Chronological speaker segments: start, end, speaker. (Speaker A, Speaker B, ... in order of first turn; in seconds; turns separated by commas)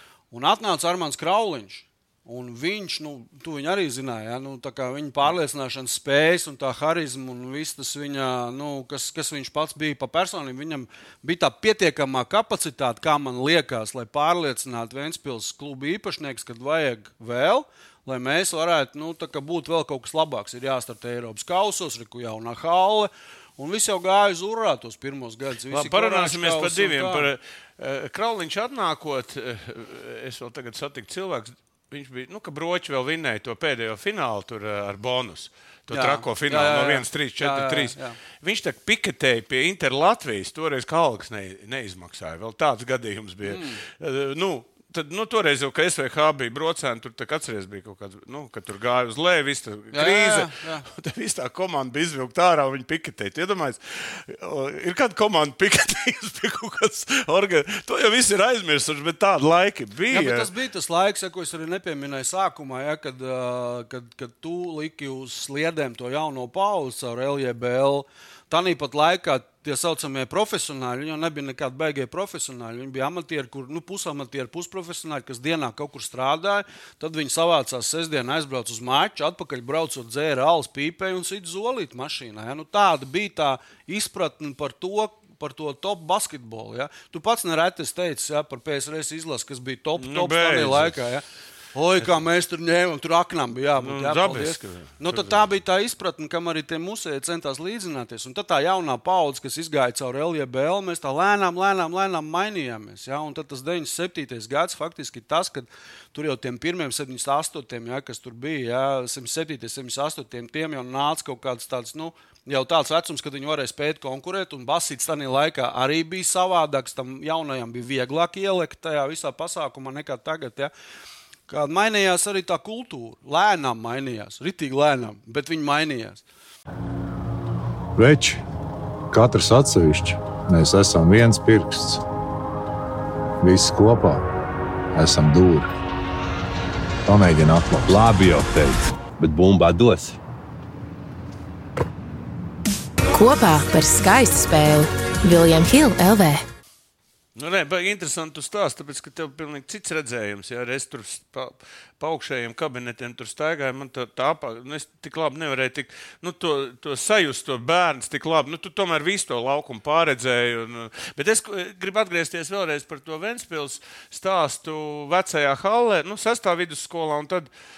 Speaker A: 0.3-27.3, Speaker B: 25.7-60.5, Speaker A: 35.9-38.2, Speaker A: 43.4-43.8, Speaker A: 49.9-50.9, Speaker A: 60.1-120.7, Speaker B: 90.0-91.0, Speaker B: 93.8-95.5, Speaker A: 121.5-126.2, Speaker C: 128.0-128.4, Speaker C: 129.1-132.0, Speaker C: 133.4-134.3, Speaker C: 134.9-135.7, Speaker C: 137.1-138.0, Speaker D: 137.9-140.2, Speaker E: 143.1-146.4, Speaker B: 147.3-167.5